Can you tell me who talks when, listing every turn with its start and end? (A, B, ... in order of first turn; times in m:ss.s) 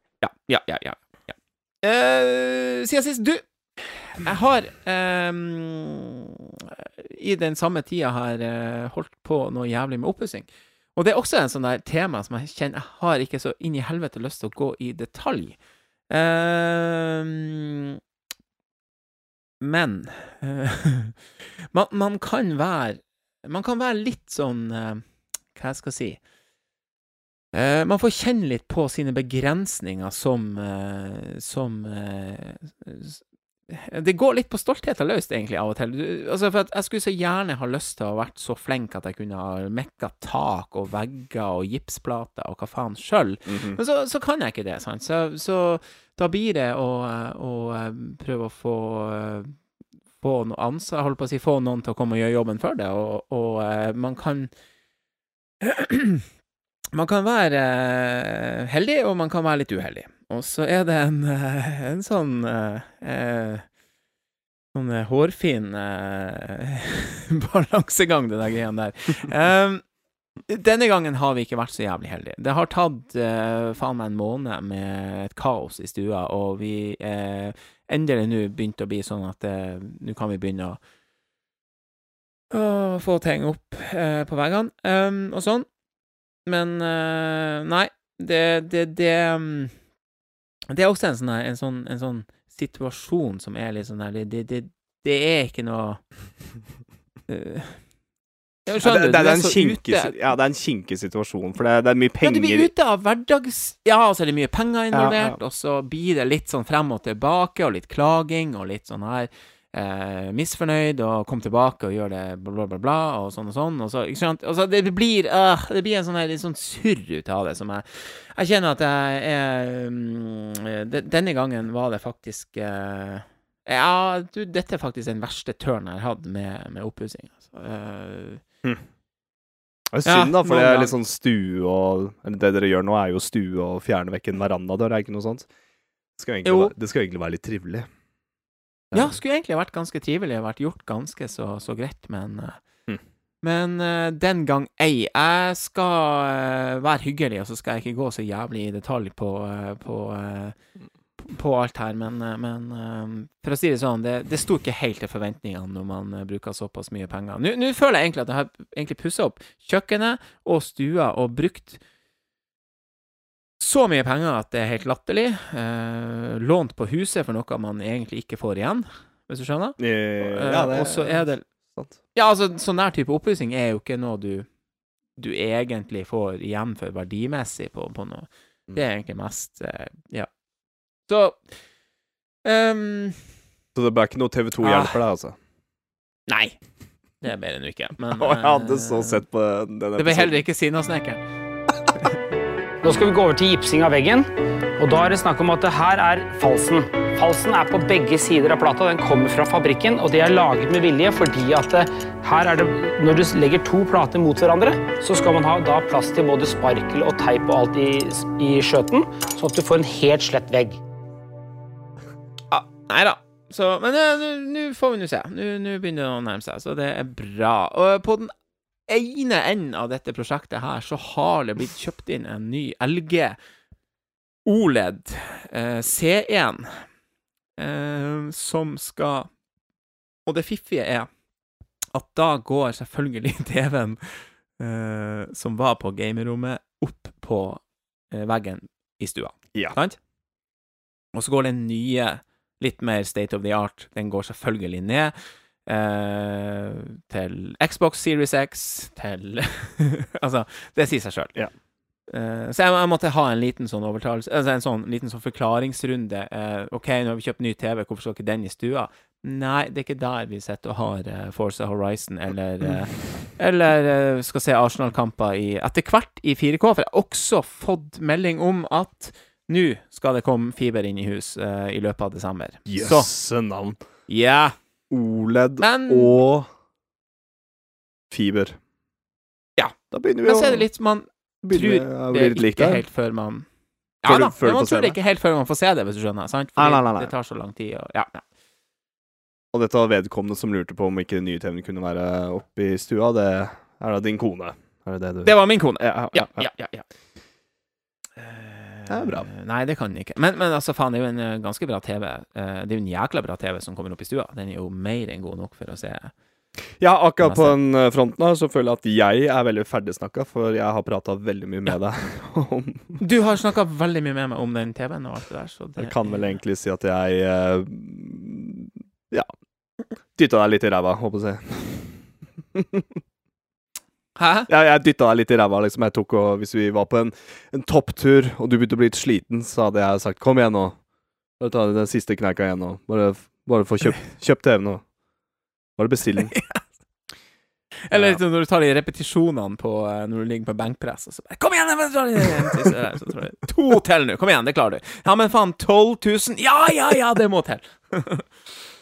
0:00.2-0:15.6 A
0:16.1-0:18.0 A
0:19.6-0:26.2 A
0:27.5-0:49.6 A
0:43.5-0:43.8 B
0:50.2-0:54.5 A
0:55.6-0:56.2 A
0:56.9-1:03.6 A
1:04.7-1:09.8 A
1:10.5-1:20.8 A
1:22.5-1:25.7 A
1:26.4-1:29.7 A
1:30.7-1:36.0 A
1:37.3-1:37.8 A
1:38.6-1:40.2 A
1:38.8-1:42.7 B
1:42.2-2:08.4 A
1:44.9-1:45.4 B
2:09.9-2:15.5 B
2:10.0-2:10.9 A
2:16.2-2:17.9 B
2:16.4-2:16.7 A
2:18.9-2:19.2 B
2:18.9-2:22.6 A
2:23.4-2:30.6 A
2:31.2-2:41.8 A
2:43.6-2:51.4 A
2:49.8-2:52.0 B
2:52.1-2:54.5 A
2:55.2-3:00.3 A
3:01.1-3:01.4 A
3:02.4-3:03.3 A
3:03.7-3:05.3 B
3:04.6-3:05.0 A
3:06.3-3:06.6 A
3:07.2-3:09.2 A
3:08.1-3:10.4 B
3:10.0-3:11.2 A
3:12.8-3:14.3 C
3:14.8-3:30.8 C
3:32.5-3:38.3 A
3:38.9-3:43.4 A
3:44.4-3:46.9 A
3:47.6-3:49.3 A
3:50.2-3:51.1 A
3:51.9-4:00.0 A
4:01.1-4:11.3 A
4:12.1-4:33.1 A
4:32.7-4:33.8 B
4:34.1-4:34.5 A
4:34.9-4:36.5 B
4:35.6-4:36.2 A
4:38.1-4:38.6 B
4:39.9-4:40.6 B
4:40.2-4:43.4 A
4:41.4-4:42.8 B
4:44.0-4:48.2 A
4:44.0-4:45.0 B
4:46.6-4:47.1 B
4:49.5-4:56.5 B
4:55.2-4:56.8 A
4:58.2-5:06.1 A
4:58.9-4:59.3 B
5:06.8-5:13.0 B
5:07.2-5:07.5 A
5:13.0-5:16.1 A
5:15.8-5:19.3 B
5:20.1-5:23.0 B
5:24.2-5:24.5 A
5:24.5-5:30.8 B
5:31.4-5:34.8 B
5:35.8-5:36.3 B
5:36.2-5:36.6 A
5:37.8-5:48.3 A
5:37.9-5:38.2 B
5:42.3-5:42.7 B